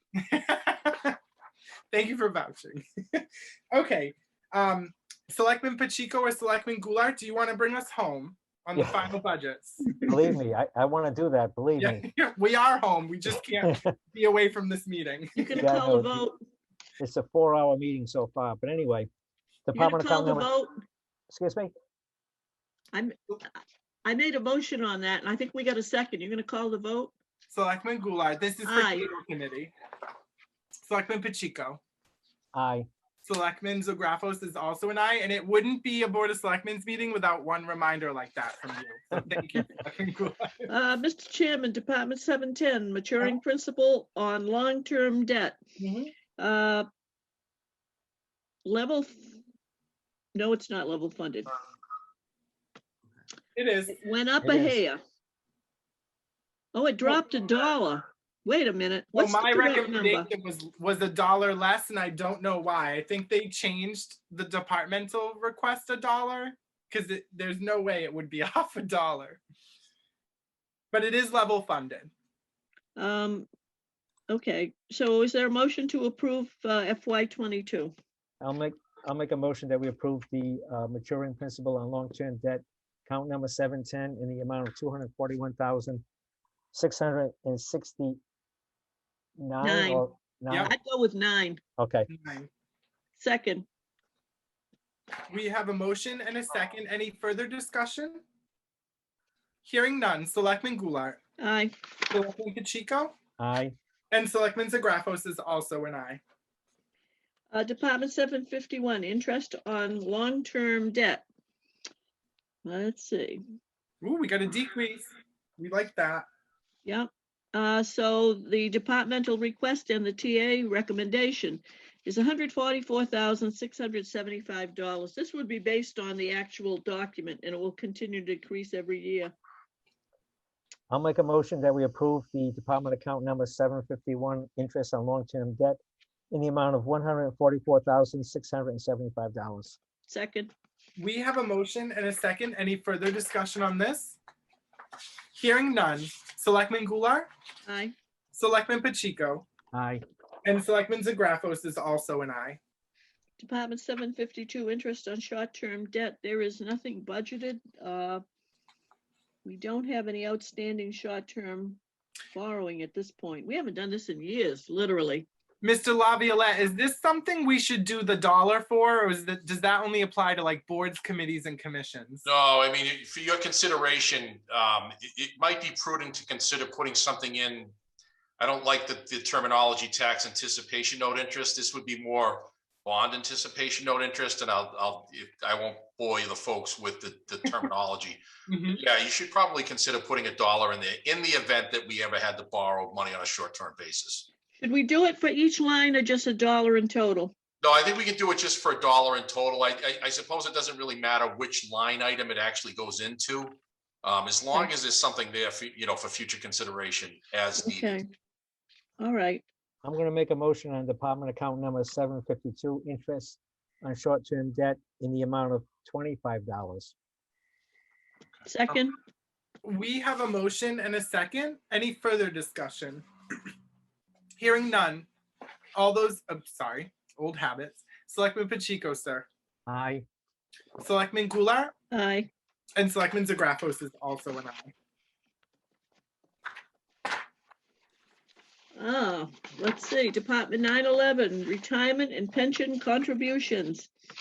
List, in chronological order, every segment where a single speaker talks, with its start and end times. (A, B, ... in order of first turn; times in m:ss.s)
0:00.2-0:01.2 A
0:01.9-0:09.9 A
0:08.8-0:09.1 B
0:10.0-0:12.0 B
0:11.8-0:15.7 A
0:13.6-0:13.9 B
0:15.4-0:16.3 C
0:15.6-0:16.3 B
0:17.0-0:19.1 B
0:19.7-0:20.5 B
0:19.7-0:20.7 C
0:21.3-0:21.7 B
0:22.9-0:23.5 C
0:24.0-0:27.1 C
0:27.5-0:29.7 A
0:28.6-0:29.1 C
0:30.8-0:31.8 A
0:32.5-0:32.9 B
0:33.2-0:40.7 A
0:40.7-0:45.6 C
0:45.8-0:46.1 A
0:46.4-0:46.9 C
0:48.6-0:49.3 C
0:50.3-0:51.5 C
0:53.6-0:54.0 A
0:53.9-0:55.0 C
0:54.4-0:54.8 B
0:56.7-1:00.3 C
0:59.1-1:09.4 A
1:10.9-1:12.1 A
1:13.0-1:13.5 C
1:14.3-1:17.9 C
1:18.4-1:26.0 B
1:26.7-1:28.2 B
1:29.4-1:30.7 B
1:29.6-1:30.1 C
1:30.7-1:31.6 C
1:31.8-1:32.1 B
1:32.1-1:32.5 A
1:33.2-1:33.7 C
1:35.3-1:38.2 A
1:39.6-1:41.2 A
1:41.4-1:41.7 C
1:42.1-1:43.1 A
1:43.4-1:43.7 B
1:44.1-1:46.2 A
1:47.5-1:51.2 C
1:52.6-1:53.4 C
1:54.0-1:56.3 A
1:56.8-2:09.3 C
2:10.9-2:15.8 B
2:16.3-2:19.8 B
2:20.1-2:20.5 C
2:21.0-2:24.2 A
2:25.4-2:27.3 A
2:27.7-2:27.9 C
2:28.3-2:29.5 A
2:29.7-2:30.0 B
2:30.4-2:32.6 A
2:33.4-2:38.2 C
2:39.4-2:41.8 C
2:42.3-2:45.2 C
2:45.6-2:52.3 A
2:52.2-2:57.7 D
2:58.4-3:14.3 D
3:08.5-3:08.8 A
3:14.6-3:17.3 C
3:17.6-3:28.0 D
3:27.6-3:28.0 C
3:29.0-3:29.4 C
3:29.8-3:36.9 B
3:38.4-3:38.9 C
3:39.6-3:43.0 A
3:44.4-3:45.1 A
3:45.8-3:49.3 A
3:49.7-3:50.0 B
3:50.8-3:51.7 A
3:51.9-3:52.3 C
3:52.8-3:54.7 A
3:58.8-4:03.9 C